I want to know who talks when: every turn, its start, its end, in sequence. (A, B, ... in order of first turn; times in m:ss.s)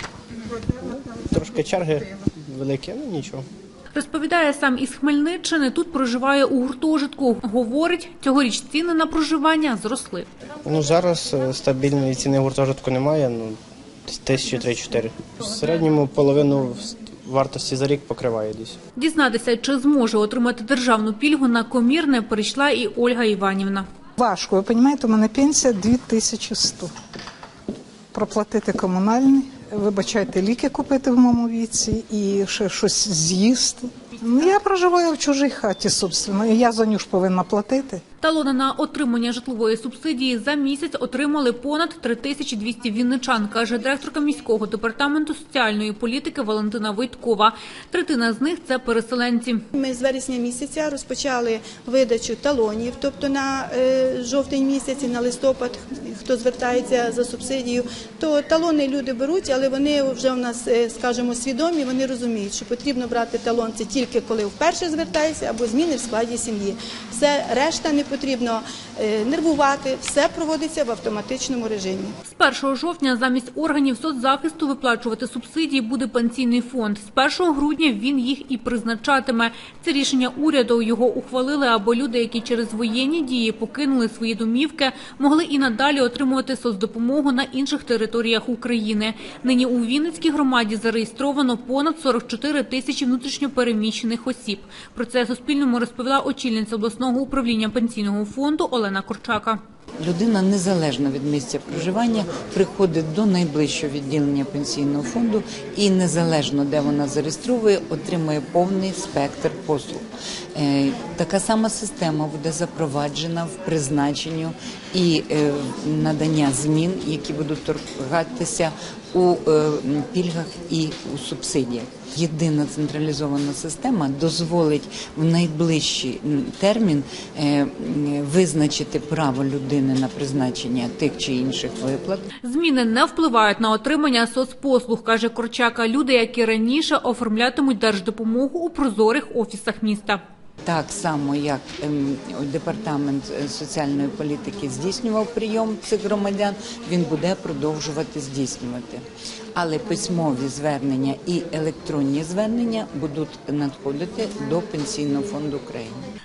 0:01.1-0:03.4 A
0:04.0-0:10.3 B
0:10.6-0:18.8 A
0:19.0-0:23.9 B
0:24.2-0:26.9 C
0:28.1-0:38.0 C
0:38.2-0:49.6 B
0:49.8-1:12.1 D
1:12.3-1:39.6 B
1:40.0-2:12.2 E
2:12.4-2:20.2 B
2:20.6-2:36.0 E